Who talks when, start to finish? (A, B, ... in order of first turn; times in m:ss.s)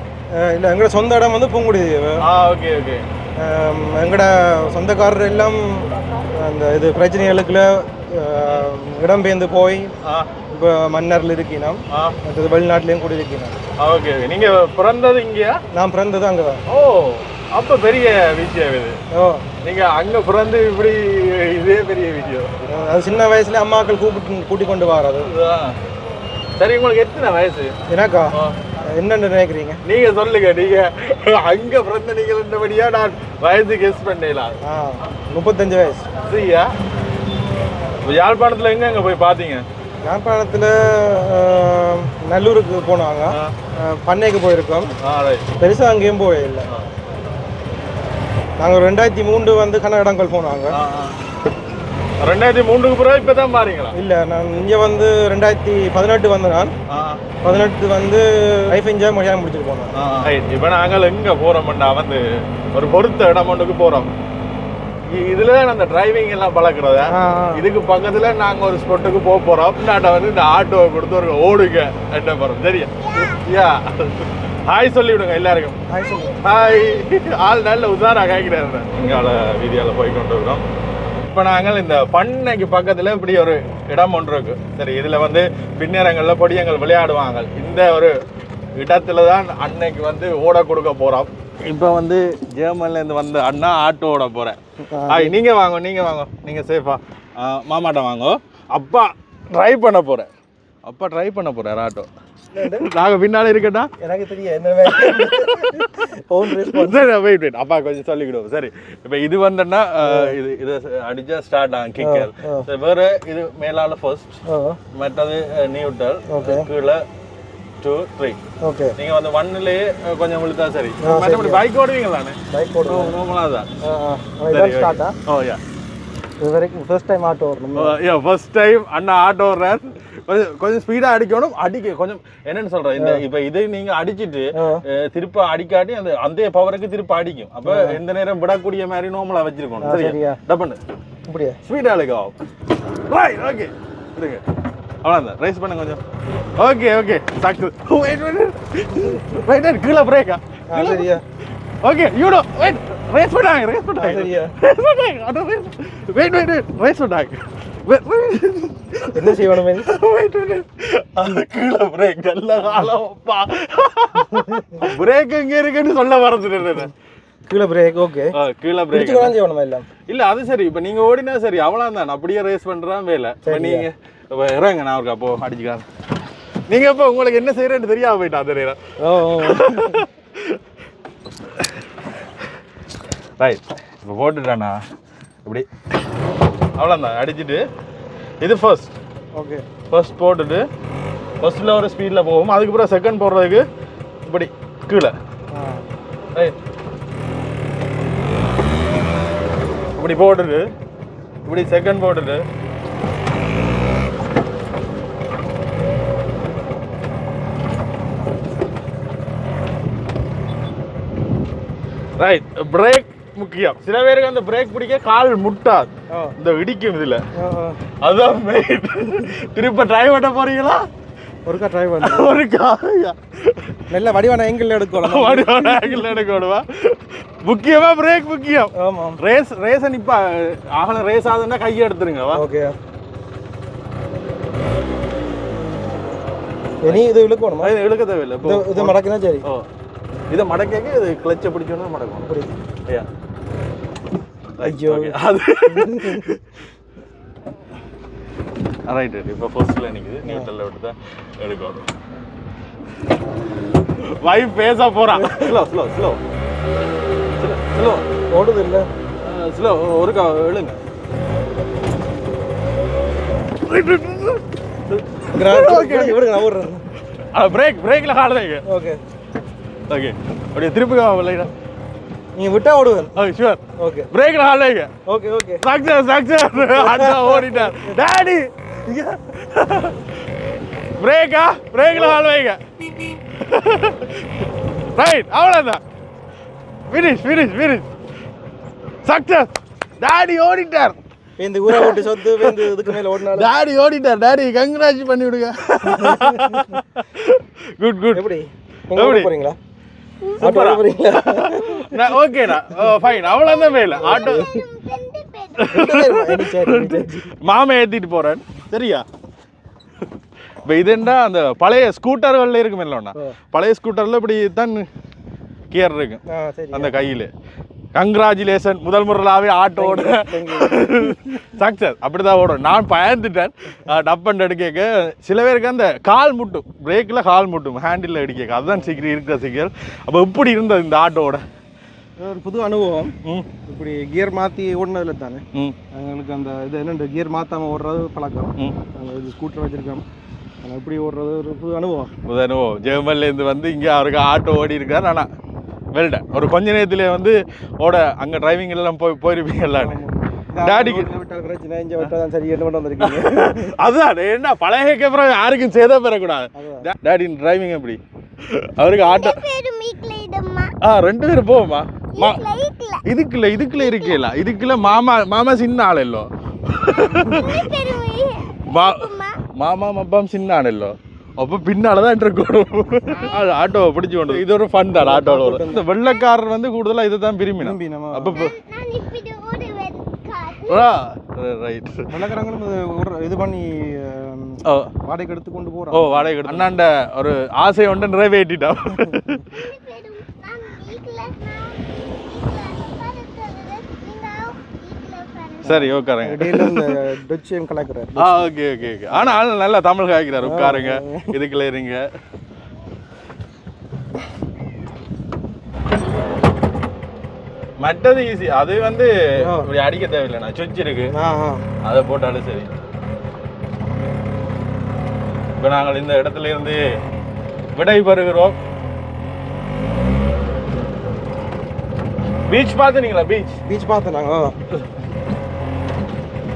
0:00.3-0:02.2 A
0:02.2-0:03.0 B
0:03.4-0:09.9 A
0:10.0-0:10.3 B
0:10.5-0:13.6 A
0:11.9-0:12.2 B
0:13.8-0:15.6 B
0:15.7-0:16.6 A
0:16.7-0:19.0 B
0:19.1-0:19.5 A
0:19.6-0:22.6 B
0:22.7-0:25.3 A
0:25.2-0:25.8 B
0:26.6-0:27.7 B
0:27.9-0:29.8 A
0:29.8-0:34.6 B
0:34.6-0:36.1 A
0:36.2-0:36.7 B
0:38.0-0:39.6 B
0:40.0-0:44.9 A
0:45.0-0:45.5 B
0:45.6-0:46.7 A
0:48.6-0:50.7 A
0:50.7-0:51.2 B
0:52.2-0:53.9 B
0:53.9-0:56.7 A
0:56.9-0:57.3 B
0:57.4-0:59.9 A
1:00.0-1:04.1 B
1:05.1-1:15.8 B
1:07.1-1:07.6 A
1:13.1-1:13.4 C
1:15.9-1:16.4 A
1:16.4-1:20.6 B
1:21.2-1:28.1 B
1:28.8-1:34.6 B
1:34.9-1:35.4 A
1:35.1-1:40.3 B
1:40.8-1:42.1 B
1:42.5-1:42.9 A
1:42.6-1:43.9 B
1:44.0-1:47.1 A
1:44.9-1:45.9 B
1:46.5-1:54.4 B
1:50.0-1:50.4 A
1:52.0-1:52.7 A
1:54.5-1:54.8 A
1:54.9-1:57.0 B
1:56.3-1:56.7 A
1:57.8-1:58.4 B
1:58.6-1:58.9 A
1:59.0-2:03.7 B
2:01.0-2:01.6 A
2:02.5-2:03.1 A
2:03.8-2:05.2 A
2:04.5-2:05.6 B
2:06.4-2:08.0 A
2:07.7-2:20.8 B
2:13.0-2:13.2 A
2:14.5-2:14.8 A
2:17.6-2:18.0 A
2:19.8-2:20.4 A
2:21.3-2:21.6 A
2:21.6-2:22.4 B
2:23.0-2:24.4 B
2:25.0-2:26.0 B
2:26.6-2:31.1 B
2:30.7-2:31.2 A
2:31.8-2:46.9 B
2:34.0-2:34.5 A
2:39.1-2:39.9 A
2:44.2-2:44.8 A
2:47.5-2:48.3 A
2:48.3-2:49.3 B
2:48.9-2:49.8 A
2:50.1-2:55.8 B
2:53.4-2:53.9 A
2:56.7-2:58.8 B
2:59.0-3:00.0 A
2:59.4-3:00.6 B
3:03.4-3:04.8 B
3:06.8-3:07.6 B
3:08.4-3:09.0 B
3:09.3-3:09.6 A
3:09.9-3:10.6 B
3:11.4-3:13.6 B
3:14.2-3:15.2 B
3:15.5-3:15.9 A
3:20.0-3:20.7 B
3:21.4-3:22.4 B
3:32.2-3:37.2 B
3:37.4-3:37.8 A
3:38.0-3:40.8 B
3:41.4-3:42.4 A
3:42.0-3:43.8 B
3:43.9-3:46.2 A
3:45.0-3:52.4 B
3:48.7-3:49.2 A
3:52.3-3:52.7 A
3:56.8-3:57.7 A
3:57.6-3:59.7 B
3:58.4-3:59.4 A
4:00.3-4:02.3 B
4:02.2-4:02.5 A
4:04.6-4:06.4 B
4:04.6-4:06.2 A
4:08.9-4:11.9 B
4:10.2-4:10.5 A
4:14.0-4:16.2 B
4:15.1-4:15.6 A
4:17.4-4:18.1 B
4:18.3-4:18.9 A
4:19.2-4:20.8 B
4:23.6-4:26.2 B
4:25.2-4:26.8 A
4:27.3-4:28.6 B
4:28.6-4:29.0 A
4:29.9-4:31.5 B
4:32.3-4:33.1 A
4:33.1-4:34.9 B
4:33.8-4:34.1 A
4:35.1-4:35.6 A
4:35.6-4:40.1 B
4:36.6-4:38.0 A
4:41.0-4:45.8 B
4:46.9-4:47.9 B
4:49.0-4:51.0 B
4:51.4-4:53.5 A
4:51.7-4:58.2 B
4:55.9-4:56.7 A
4:58.1-4:59.6 A
4:58.9-4:59.3 B
5:00.4-5:04.5 B
5:00.4-5:02.1 A
5:02.8-5:06.1 C
5:04.0-5:04.6 A
5:05.6-5:09.0 B
5:05.7-5:07.3 A
5:10.6-5:14.9 B
5:15.7-5:17.3 B
5:16.3-5:16.9 A
5:17.9-5:31.4 B
5:19.8-5:21.2 A
5:32.2-5:40.0 A
5:33.2-5:33.5 B
5:40.6-5:42.1 A
5:42.2-5:45.3 B
5:45.9-5:50.0 B
5:49.8-5:53.8 A
5:50.6-5:51.1 B
5:53.0-5:59.4 B
5:56.5-5:56.9 A
5:58.9-6:00.8 C
6:00.8-6:02.4 B
6:02.1-6:03.0 C
6:03.0-6:07.7 B
6:03.8-6:04.2 C
6:07.1-6:09.4 C
6:08.6-6:18.6 B
6:14.9-6:15.8 A
6:17.6-6:18.4 A
6:18.3-6:20.9 C
6:20.6-6:22.1 B
6:22.1-6:26.7 A
6:24.6-6:24.9 B
6:25.9-6:29.6 B
6:28.9-6:29.4 A
6:29.5-6:35.9 C
6:35.6-6:36.9 B
6:35.6-6:38.5 A
6:38.2-6:42.0 B
6:39.1-6:39.4 A
6:40.4-6:41.3 A
6:47.8-6:51.1 B
6:49.4-6:49.7 A
6:51.1-6:51.6 A
6:51.8-6:52.7 B
6:55.6-6:56.8 B
6:57.7-6:58.6 B
7:02.5-7:03.6 B
7:03.6-7:04.5 A